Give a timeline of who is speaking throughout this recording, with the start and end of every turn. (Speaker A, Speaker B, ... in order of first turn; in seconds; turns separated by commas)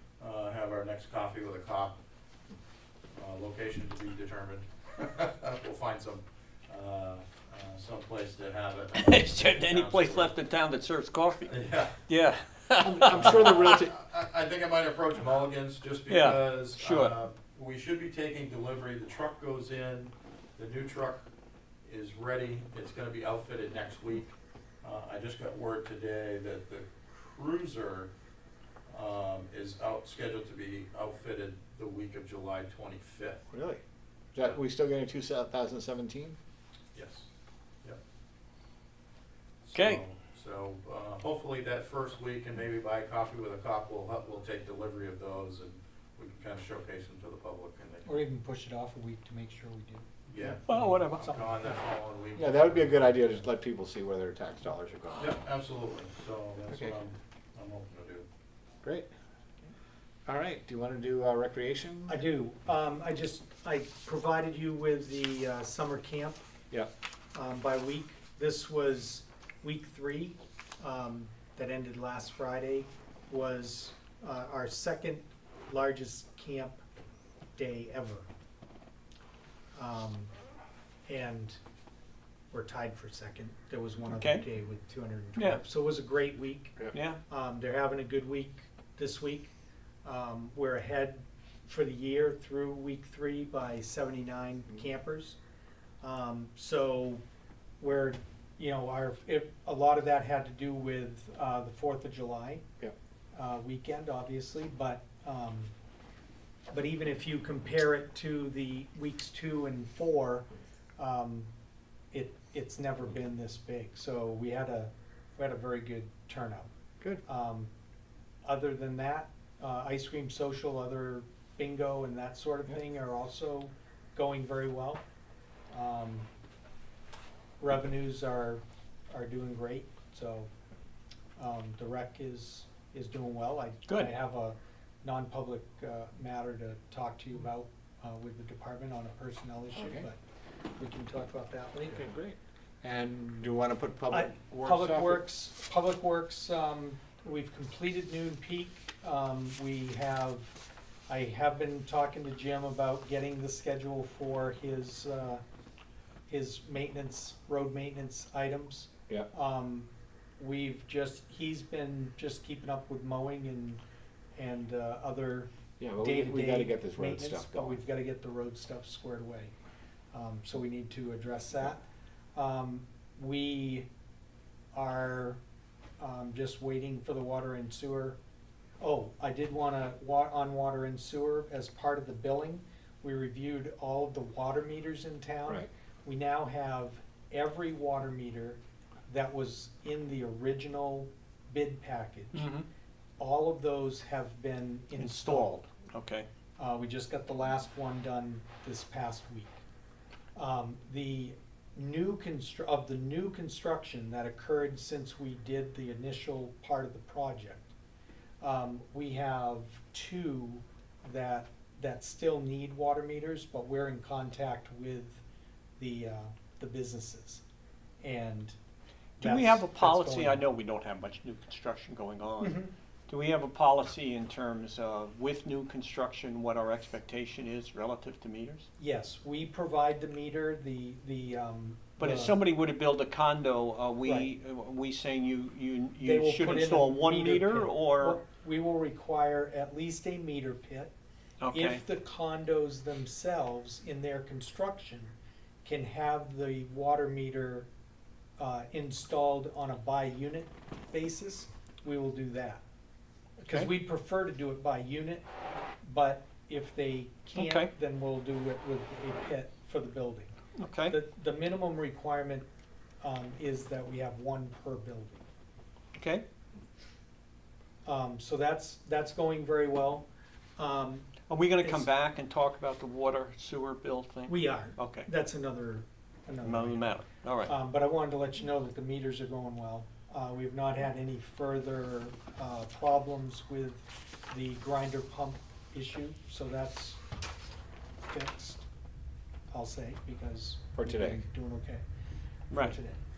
Speaker A: 0.2-2.0, Speaker A: 3.1-10.3, Speaker B: 9.0-11.6, Speaker A: 11.5-12.0, Speaker B: 12.1-13.8, Speaker C: 12.8-13.9, Speaker A: 13.1-21.2, Speaker B: 16.1-17.2, Speaker A: 21.9-28.1, Speaker A: 28.9-33.4, Speaker C: 33.5-33.8, Speaker C: 34.3-36.4, Speaker A: 36.9-37.3, Speaker A: 39.6-48.2, Speaker B: 39.7-40.0, Speaker D: 48.0-51.8, Speaker A: 50.3-53.4, Speaker B: 50.7-51.3, Speaker C: 52.4-55.4, Speaker A: 55.2-58.3, Speaker C: 56.7-57.0, Speaker C: 58.8-59.1, Speaker C: 60.3-62.2, Speaker D: 62.1-66.4, Speaker D: 67.3-76.8, Speaker D: 77.6-78.3, Speaker D: 79.8-80.3, Speaker D: 81.1-81.6, Speaker D: 82.5-89.5, Speaker B: 84.1-84.5, Speaker B: 85.4-85.6, Speaker B: 86.9-87.2, Speaker D: 90.0-95.4, Speaker D: 96.0-97.2, Speaker D: 97.8-102.6, Speaker D: 103.3-105.7, Speaker D: 106.7-111.5, Speaker D: 112.1-116.7, Speaker D: 117.2-117.7, Speaker D: 118.4-125.0, Speaker D: 125.7-126.3, Speaker D: 127.6-130.5, Speaker D: 131.4-140.2, Speaker B: 133.9-134.1, Speaker C: 139.8-140.1, Speaker D: 140.8-142.1, Speaker C: 141.8-145.2, Speaker D: 144.1-155.4, Speaker D: 156.3-163.8, Speaker D: 164.4-169.5, Speaker C: 165.8-167.8, Speaker D: 170.1-171.8, Speaker D: 172.3-173.9, Speaker D: 174.7-175.4, Speaker D: 176.0-178.2, Speaker D: 178.8-192.5, Speaker B: 192.3-192.7, Speaker D: 193.2-195.6, Speaker B: 194.9-196.3, Speaker D: 196.6-199.6, Speaker D: 200.3-207.7, Speaker D: 208.4-215.2, Speaker D: 215.8-217.4, Speaker D: 218.0-218.6, Speaker D: 219.2-220.5, Speaker B: 219.2-228.7, Speaker D: 222.4-222.7, Speaker D: 228.8-232.4, Speaker B: 232.0-238.2, Speaker D: 234.0-234.3, Speaker D: 236.0-240.9, Speaker B: 241.4-241.8, Speaker D: 241.5-247.7, Speaker D: 248.4-252.6, Speaker D: 253.4-255.3, Speaker D: 255.8-260.4, Speaker B: 257.3-257.7, Speaker B: 260.6-261.0, Speaker D: 260.9-262.5, Speaker D: 263.0-265.2, Speaker B: 266.0-266.2, Speaker D: 267.9-271.9, Speaker B: 271.3-275.1, Speaker D: 274.3-287.0, Speaker B: 276.4-277.5, Speaker D: 288.1-288.6, Speaker D: 289.5-291.8, Speaker C: 290.8-291.2, Speaker B: 292.5-292.8, Speaker D: 292.5-293.0